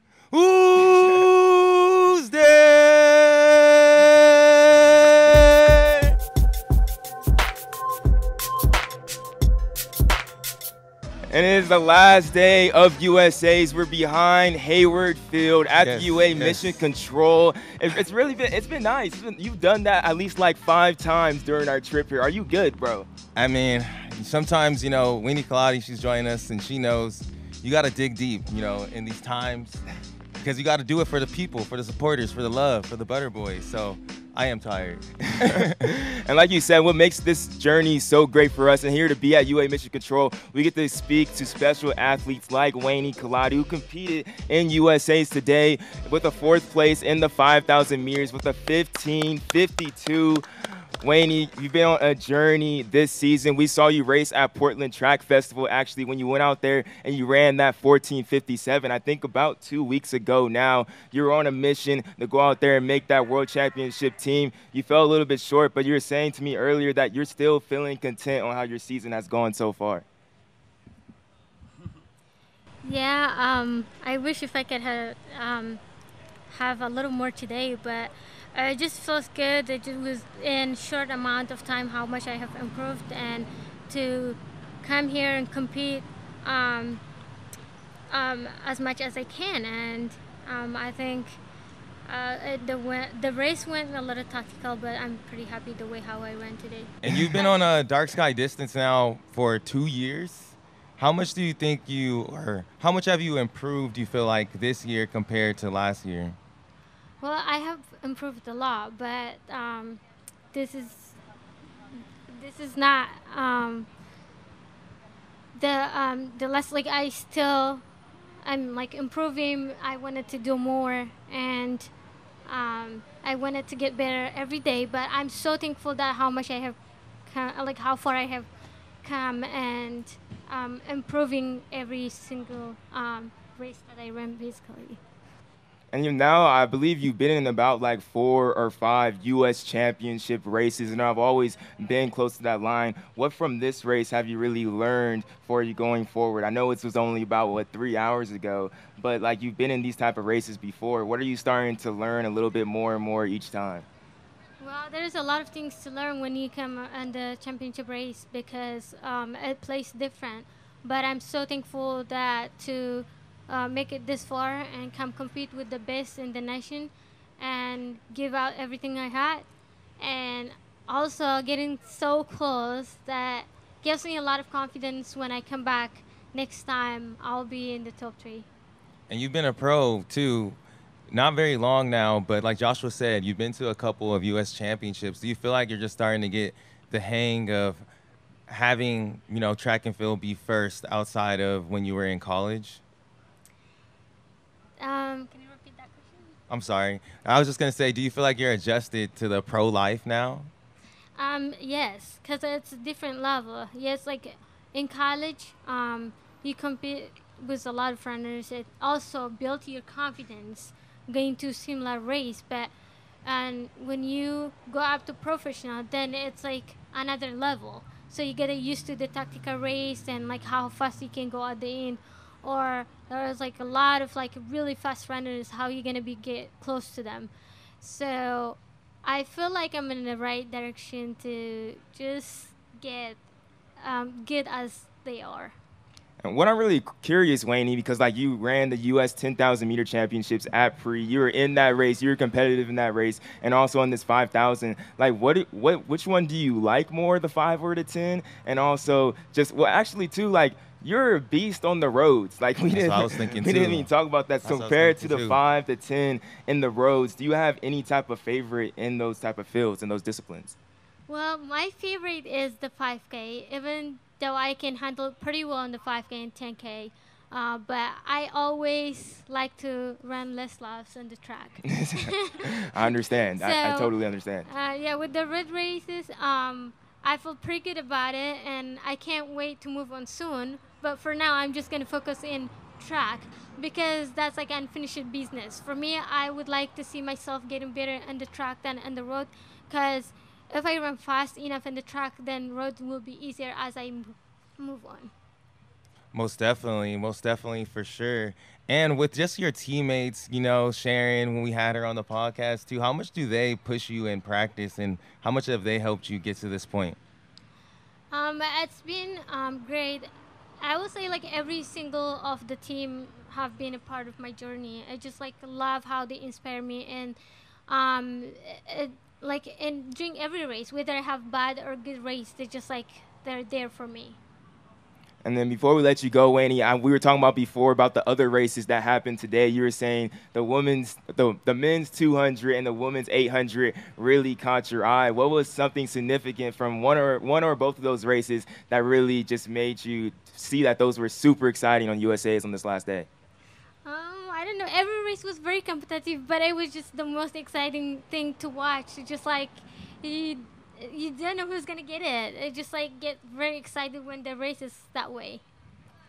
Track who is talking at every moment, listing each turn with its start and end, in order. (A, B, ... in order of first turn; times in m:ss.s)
0:00.3-0:06.1 A
0:11.3-0:23.1 B
0:15.8-0:16.8 A
0:23.3-0:29.8 A
0:30.4-0:35.9 A
0:35.3-0:50.4 B
0:51.0-1:10.0 B
1:12.8-1:15.8 C
1:16.5-1:27.0 C
1:28.1-1:31.4 C
1:32.1-1:37.5 C
1:37.0-1:46.4 A
1:47.2-1:50.0 C
1:50.5-1:51.2 C
1:52.3-1:53.9 C
1:55.6-1:57.8 C
1:58.4-2:01.9 C
2:02.5-2:08.5 C
2:09.0-2:15.0 C
2:15.9-2:33.8 B
2:34.6-2:49.4 C
2:50.0-2:58.5 C
2:59.1-3:00.6 A
3:01.1-3:07.8 A
3:08.5-3:12.8 A
3:14.8-3:16.3 C
3:16.5-3:20.5 A
3:21.2-3:32.7 C
3:33.2-3:53.2 C
3:53.8-3:55.5 C
3:56.2-4:20.6 B
4:12.7-4:13.9 A
4:14.4-4:15.4 A
4:21.1-4:33.9 C
4:31.6-4:34.4 B
4:34.5-4:55.1 C
4:56.1-5:07.0 A
5:08.1-5:10.1 C
5:10.6-5:17.2 C
5:17.7-5:24.2 C
5:25.2-5:43.1 B
5:43.8-5:55.4 C